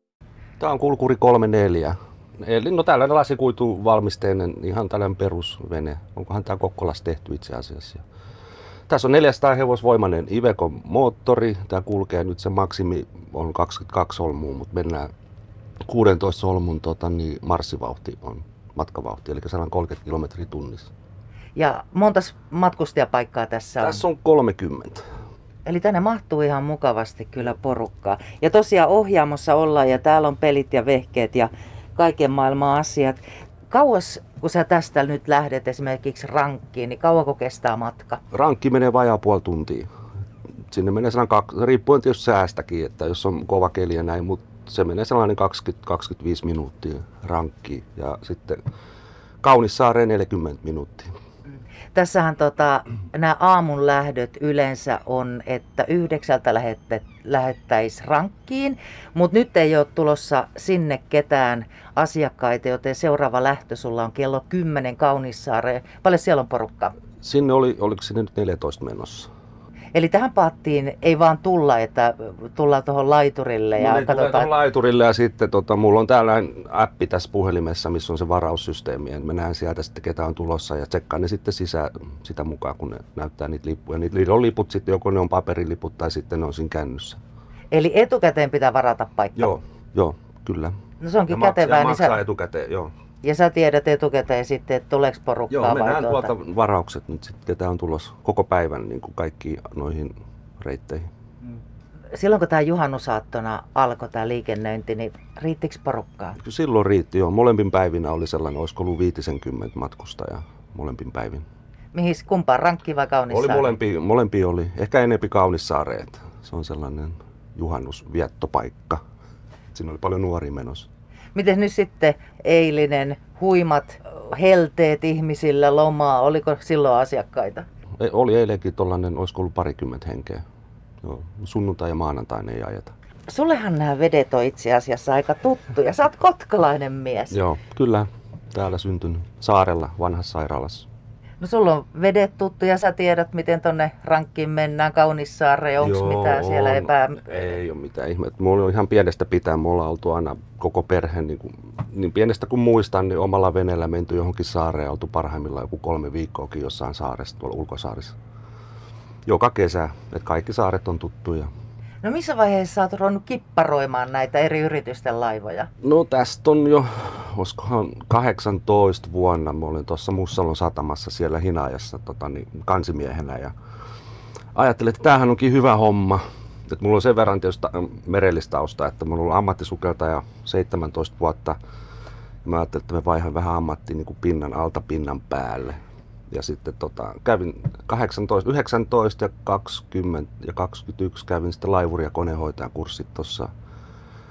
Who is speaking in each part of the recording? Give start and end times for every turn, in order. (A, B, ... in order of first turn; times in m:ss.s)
0:00.6-0:08.0 A
0:08.9-0:15.1 A
0:15.9-0:20.9 A
0:21.5-0:24.0 B
0:23.8-0:25.0 A
0:25.6-0:38.2 B
0:38.3-0:39.9 A
0:40.7-0:48.6 A
0:49.4-0:51.1 A
0:51.9-1:07.0 B
1:07.2-1:09.3 A
1:09.9-1:14.5 B
1:13.7-1:27.2 A
1:27.7-1:29.5 B
1:29.4-1:32.9 A
1:31.0-1:32.2 B
1:33.2-1:36.3 B
1:35.5-1:41.1 A
1:42.1-1:46.4 B
1:46.4-1:51.4 A
1:51.9-1:53.8 B
1:53.3-1:59.0 A
1:59.7-2:00.9 A
2:01.3-2:07.6 B
2:08.0-2:10.4 A
2:11.0-2:12.9 A
2:13.3-2:17.4 B
2:17.3-2:20.9 A
2:21.4-2:27.6 B
2:25.8-2:38.2 A
2:39.2-2:41.5 A
2:42.0-2:45.7 B
2:45.8-2:53.5 A
2:54.5-3:01.6 A
3:02.4-3:05.8 A
3:06.3-3:13.5 A